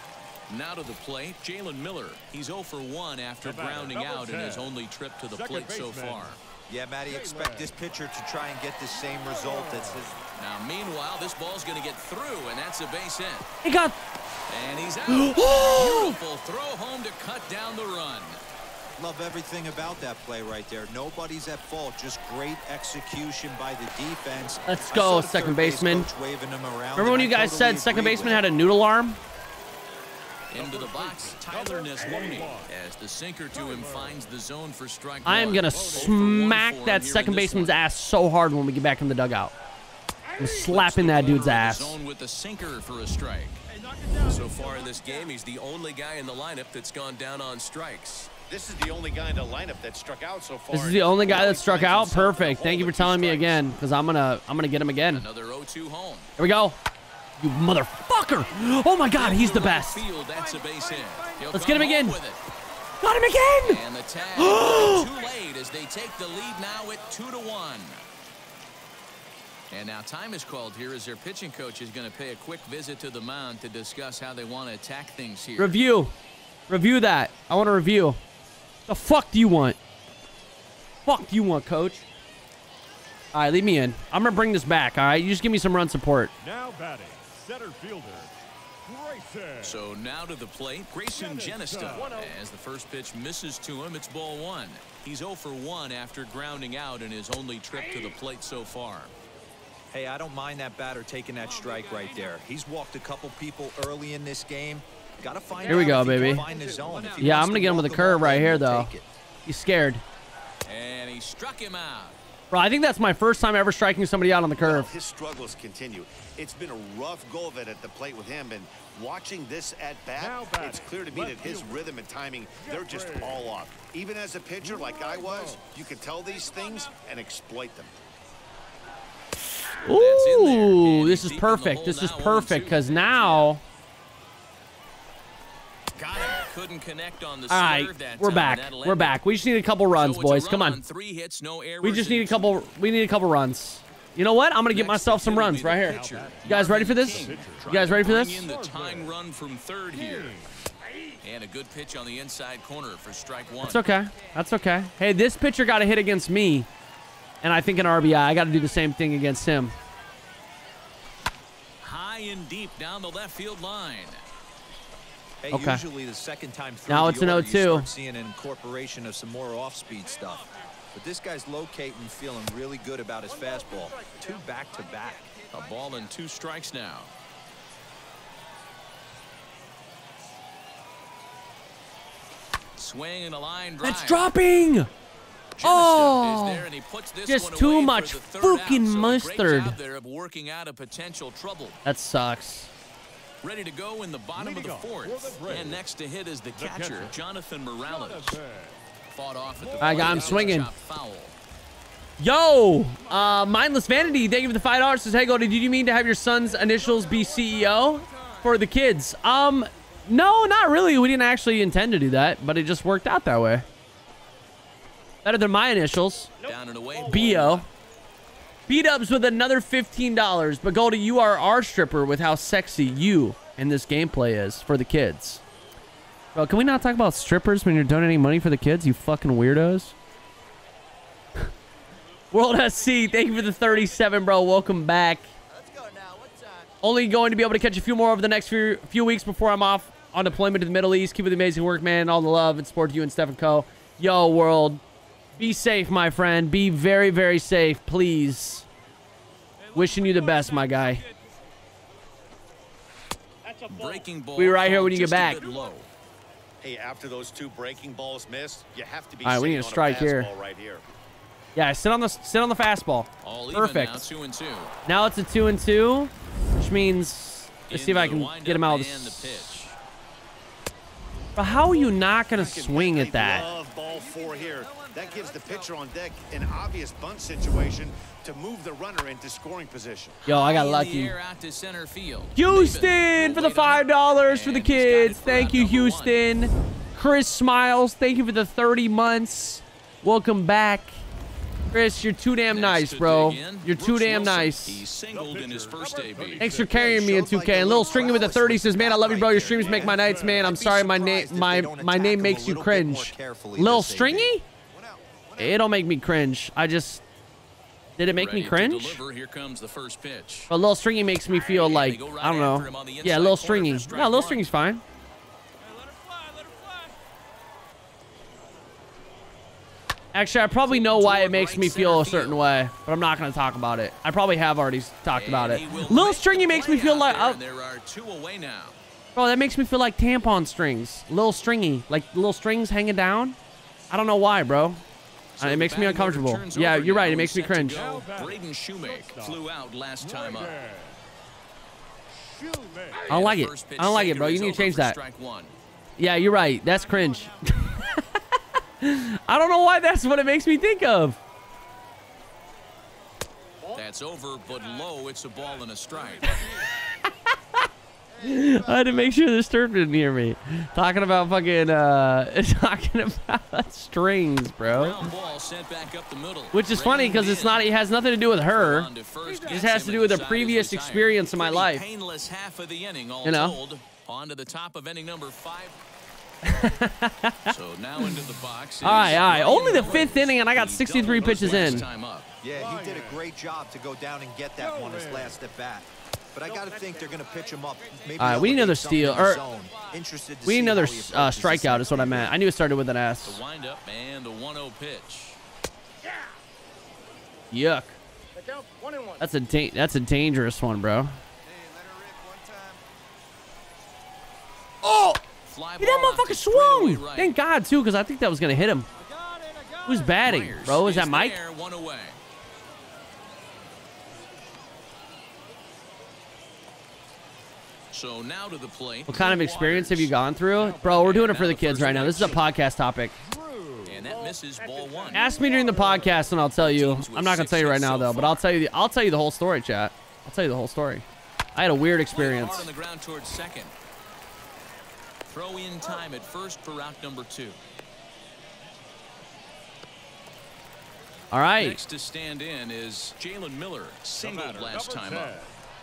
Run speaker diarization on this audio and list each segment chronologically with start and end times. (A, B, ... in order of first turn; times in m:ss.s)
0:00.5-0:06.4 A
0:03.4-0:04.7 B
0:05.3-0:06.4 B
0:06.7-0:10.1 C
0:07.1-0:07.8 B
0:09.0-0:10.1 B
0:10.4-0:13.5 A
0:13.6-0:14.0 D
0:14.5-0:18.4 A
0:15.1-0:16.2 D
0:19.0-0:28.5 C
0:24.7-0:26.1 D
0:26.9-0:29.2 D
0:30.5-0:37.8 A
0:30.5-0:32.7 B
0:33.5-0:34.3 B
0:35.2-0:39.5 D
0:35.3-0:36.3 B
0:40.4-0:42.0 D
0:40.4-0:43.6 A
0:44.2-0:48.1 E
0:48.5-0:53.6 F
0:50.7-0:55.2 D
0:55.1-0:56.3 A
0:56.4-0:56.8 D
0:57.4-1:00.0 D
0:59.1-1:02.4 A
1:01.5-1:02.2 D
1:03.0-1:03.8 D
1:03.6-1:08.0 A
1:04.4-1:05.1 D
1:09.7-1:15.8 A
1:15.6-1:16.1 D
1:16.7-1:18.2 D
1:18.9-1:19.8 D
1:21.0-1:22.0 D
1:23.3-1:26.3 D
1:26.4-1:28.3 B
1:28.8-1:29.8 B
1:29.6-1:39.1 A
1:31.1-1:32.4 B
1:39.9-1:49.1 C
1:45.6-1:46.5 D
1:47.2-1:48.9 D
1:49.4-1:50.0 D
1:50.6-1:52.2 A
1:52.5-1:54.9 D
1:54.6-2:07.9 F
2:00.1-2:02.0 B
2:02.6-2:03.6 B
2:04.6-2:05.6 B
2:09.7-2:13.6 D
2:09.8-2:13.5 A
2:16.0-2:16.5 F
2:16.2-2:19.2 A
2:17.5-2:20.8 D
2:19.9-2:22.5 A
2:21.8-2:28.4 D
2:24.7-2:30.3 A
2:25.8-2:29.1 B
2:29.9-2:30.6 B
2:31.2-2:33.9 A
2:33.6-2:36.7 D
2:37.4-2:39.7 D
2:41.8-2:44.2 A
2:45.4-2:55.3 C
2:45.5-2:45.8 D
2:46.9-2:47.9 D
2:55.5-2:57.1 A
3:02.8-3:04.2 A
3:03.8-3:04.9 D
3:05.6-3:11.8 A
3:05.6-3:06.7 D
3:07.2-3:09.8 D
3:11.8-3:12.7 D
3:13.4-3:18.4 A
3:14.3-3:15.8 B
3:16.5-3:17.2 B
3:17.8-3:18.8 B
3:19.1-3:21.3 A
3:19.6-3:20.7 B
3:19.8-3:20.7 D
3:22.2-3:33.6 D
3:35.2-3:36.3 D
3:36.4-3:37.6 A
3:37.0-3:37.7 D
3:38.7-3:45.4 D
3:46.3-3:49.9 D
3:52.3-3:55.3 D
3:56.8-4:04.8 D
4:05.4-4:08.7 D
4:09.7-4:11.0 D
4:13.7-4:15.9 A
4:14.4-4:15.4 D
4:16.6-4:20.8 F
4:19.2-4:20.3 D
4:21.5-4:24.0 D
4:23.2-4:24.7 A
4:24.8-4:29.6 D
4:27.7-4:29.7 A
4:31.4-4:33.5 D
4:32.3-4:40.2 F
4:40.2-4:41.1 D
4:40.2-4:46.2 A
4:42.4-4:50.9 D
4:51.7-4:54.8 D
4:52.5-4:56.5 A
4:55.1-4:56.9 B
4:56.4-5:04.4 D
4:56.6-5:04.4 C
4:59.5-5:00.5 B
5:04.7-5:05.5 F
5:05.4-5:07.0 D
5:08.0-5:09.0 D
5:08.1-5:10.5 A
5:10.5-5:14.8 D
5:11.3-5:14.5 A
5:20.1-5:27.4 D
5:20.6-5:22.4 A
5:25.1-5:28.8 A
5:29.1-5:33.4 D
5:33.9-5:34.8 D
5:35.4-5:40.5 A
5:35.4-5:37.8 D
5:37.7-5:39.4 B
5:40.0-5:41.0 B
5:42.1-5:43.1 B
5:43.1-5:45.0 D
5:43.1-5:45.5 A
5:46.0-5:51.2 D
5:53.7-5:56.4 A
5:56.4-5:57.6 D
5:58.2-6:05.0 D
6:04.7-6:07.7 A
6:06.5-6:08.9 D
6:08.5-6:15.8 A
6:09.4-6:11.8 D
6:13.2-6:13.6 D
6:16.4-6:18.2 D
6:17.4-6:22.3 A
6:18.8-6:21.9 D
6:22.4-6:32.4 C
6:22.5-6:23.2 B
6:24.6-6:25.4 B
6:28.2-6:29.4 D
6:30.4-6:33.4 D
6:33.2-6:35.4 A
6:37.5-6:38.0 D
6:39.2-6:41.2 D
6:44.8-6:45.2 D
6:45.4-6:47.4 A
6:45.8-6:48.9 D
6:49.8-6:51.4 D
6:50.2-6:52.2 A
6:57.9-7:00.1 A
6:59.1-7:03.2 D
7:00.5-7:01.2 B
7:00.7-7:02.4 A
7:03.2-7:04.1 B
7:03.8-7:05.3 A
7:05.1-7:12.7 D
7:05.2-7:06.2 B
7:06.4-7:08.5 A
7:12.1-7:13.7 A
7:15.3-7:17.6 A
7:21.3-7:21.8 D
7:21.6-7:25.4 A
7:24.2-7:25.6 B